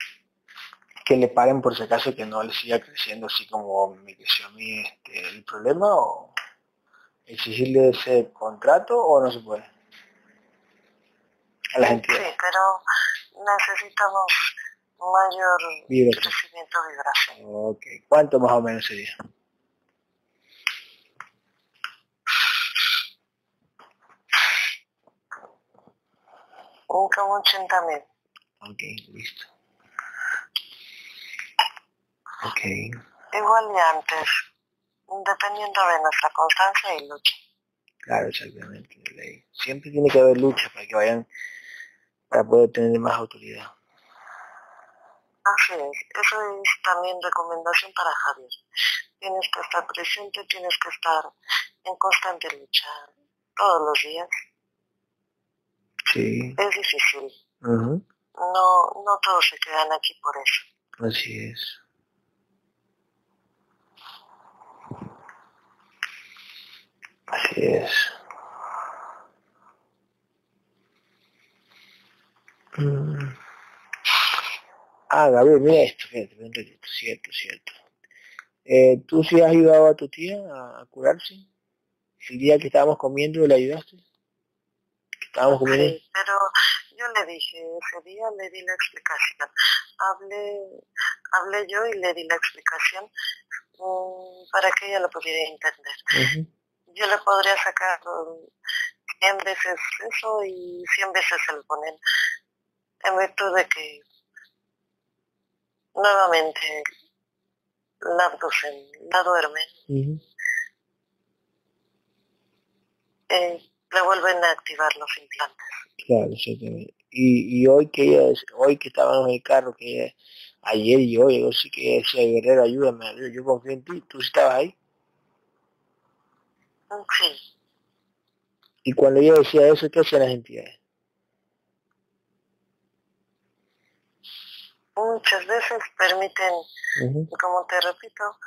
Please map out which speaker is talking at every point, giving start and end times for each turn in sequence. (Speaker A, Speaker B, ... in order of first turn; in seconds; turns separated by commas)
Speaker A: 1.0-6.3, Speaker A: 7.3-9.7, Speaker A: 11.7-12.3, Speaker B: 11.8-12.8, Speaker B: 13.4-17.4, Speaker A: 15.9-16.3, Speaker A: 17.4-19.1, Speaker B: 26.9-28.0, Speaker A: 28.6-29.5, Speaker A: 32.4-33.0, Speaker B: 33.3-34.4, Speaker B: 35.1-37.3, Speaker A: 38.0-41.2, Speaker A: 42.3-43.7, Speaker B: 45.5-48.6, Speaker B: 49.2-51.3, Speaker B: 51.8-54.3, Speaker A: 56.0-56.6, Speaker B: 56.6-57.3, Speaker A: 57.6-58.0, Speaker B: 58.4-60.6, Speaker A: 61.0-61.8, Speaker A: 67.3-68.1, Speaker A: 72.8-73.4, Speaker A: 75.1-77.8, Speaker A: 78.7-81.5, Speaker A: 82.2-84.0, Speaker A: 85.2-86.0, Speaker B: 85.6-90.8, Speaker B: 91.3-93.1, Speaker B: 93.8-96.0, Speaker A: 96.1-96.5, Speaker B: 96.9-98.5, Speaker B: 99.2-102.0, Speaker B: 103.0-104.0, Speaker B: 106.0-106.9, Speaker B: 108.0-109.7, Speaker A: 109.9-110.2, Speaker B: 113.3-115.8, Speaker A: 116.0-124.7, Speaker B: 126.9-127.4, Speaker A: 128.8-130.8, Speaker B: 135.0-136.6, Speaker A: 137.0-137.3, Speaker B: 137.3-138.3